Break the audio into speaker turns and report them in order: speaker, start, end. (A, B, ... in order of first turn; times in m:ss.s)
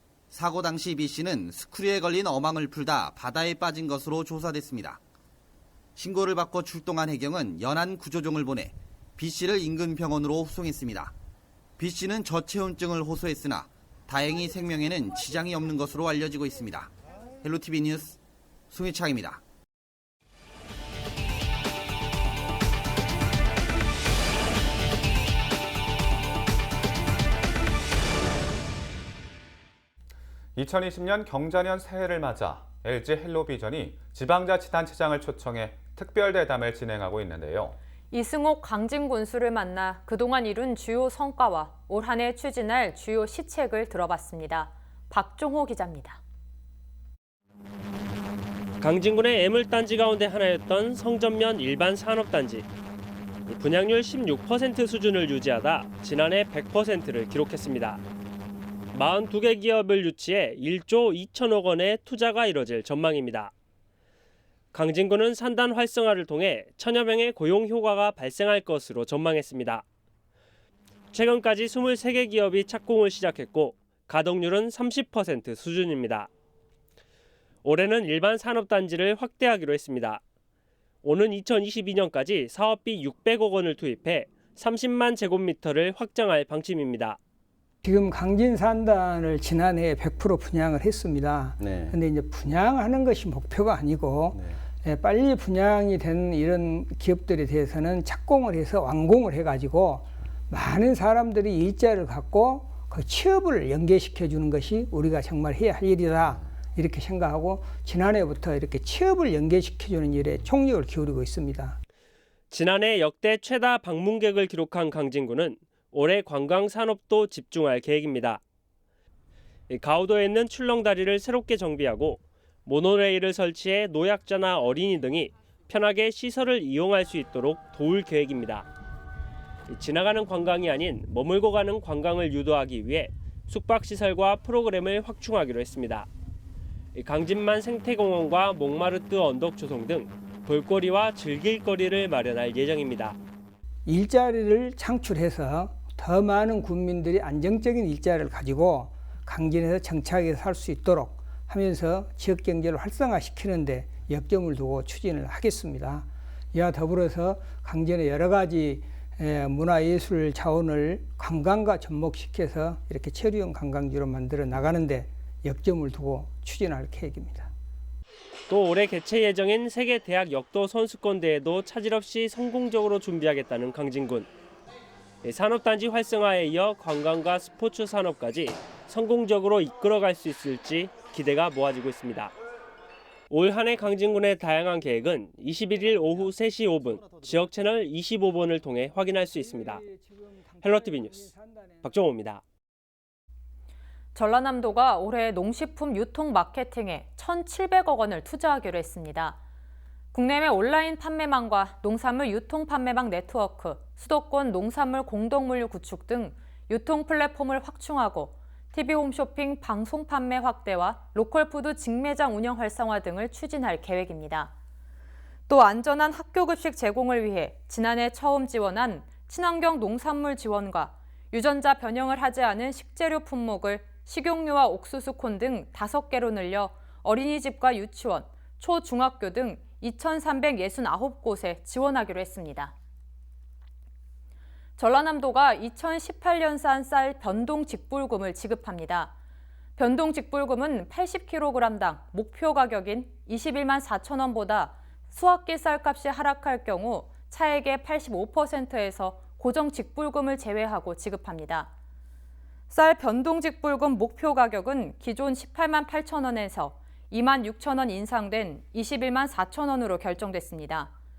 0:00.3-0:05.0 A
0:06.0-0:11.1 A
0:11.8-0:16.9 A
0:17.4-0:18.2 A
0:18.7-0:19.4 A
0:30.6-0:37.8 B
0:38.1-0:46.2 C
0:48.8-0:52.7 D
0:53.5-0:58.0 D
0:58.9-1:03.5 D
1:04.7-1:09.8 D
1:11.1-1:16.3 D
1:17.6-1:20.2 D
1:21.0-1:27.2 D
1:27.8-1:51.8 E
1:31.6-1:31.9 A
1:52.5-1:58.4 D
1:59.7-2:08.7 D
2:09.7-2:16.1 D
2:16.9-2:23.2 D
2:23.8-2:47.5 E
2:48.5-2:54.3 D
2:55.2-3:02.3 D
3:03.3-3:09.8 D
3:05.8-3:07.5 A
3:09.3-3:12.0 E
3:10.6-3:11.3 D
3:11.8-3:12.4 D
3:14.1-3:19.4 C
3:20.1-3:34.5 C
3:35.5-3:52.7 C
3:54.8-3:59.1 C
3:59.8-4:11.7 C
4:12.7-4:20.9 C